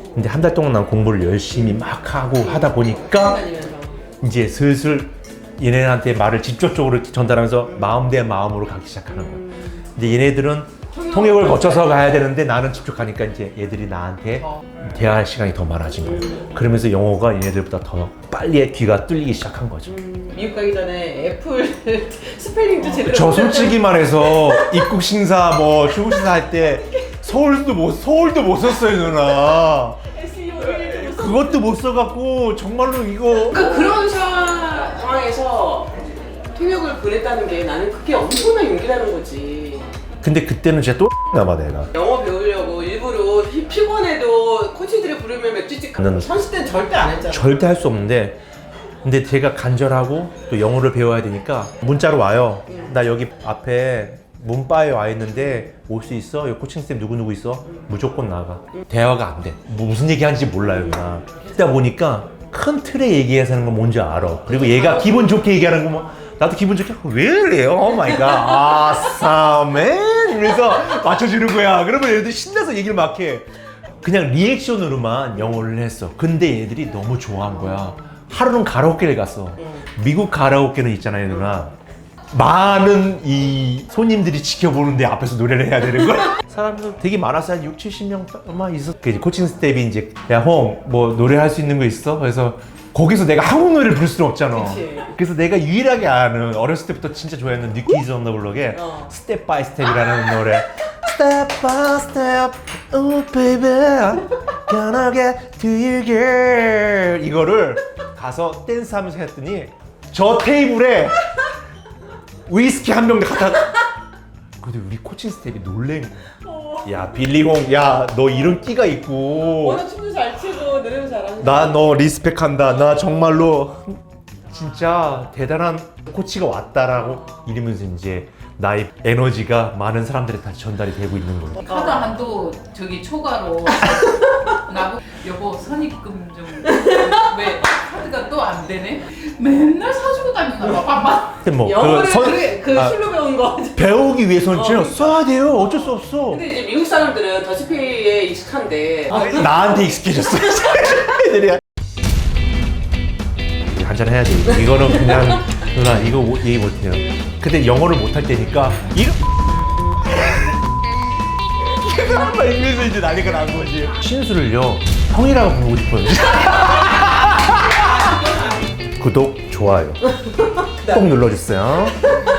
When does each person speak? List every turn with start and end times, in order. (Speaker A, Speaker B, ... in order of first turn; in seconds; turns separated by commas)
Speaker A: 0.1-3.4, Speaker B: 2.4-4.0, Speaker A: 4.2-20.0, Speaker B: 10.9-12.2, Speaker B: 19.9-24.9, Speaker A: 22.9-30.0, Speaker B: 26.6-27.1, Speaker B: 29.4-31.7, Speaker A: 30.6-34.1, Speaker B: 33.4-36.0, Speaker B: 36.5-39.9, Speaker A: 40.2-41.9, Speaker B: 41.9-47.6, Speaker A: 46.0-46.3, Speaker A: 47.3-48.4, Speaker A: 49.0-73.5, Speaker A: 74.0-81.8, Speaker A: 82.3-111.4, Speaker B: 94.5-95.2, Speaker B: 98.8-99.1, Speaker A: 112.5-113.8, Speaker A: 114.6-116.3, Speaker B: 116.5-116.9, Speaker A: 116.8-119.8, Speaker B: 119.5-122.0, Speaker A: 121.4-124.0, Speaker A: 124.5-131.8, Speaker C: 131.7-134.1, Speaker B: 131.7-132.1, Speaker C: 134.7-141.4, Speaker B: 136.8-137.7, Speaker A: 141.4-143.0, Speaker B: 141.6-143.9, Speaker A: 143.8-146.4, Speaker B: 144.5-149.6, Speaker A: 149.1-151.6, Speaker A: 153.7-159.2, Speaker A: 160.1-160.6, Speaker A: 161.7-168.1, Speaker A: 169.0-170.1, Speaker A: 170.8-172.2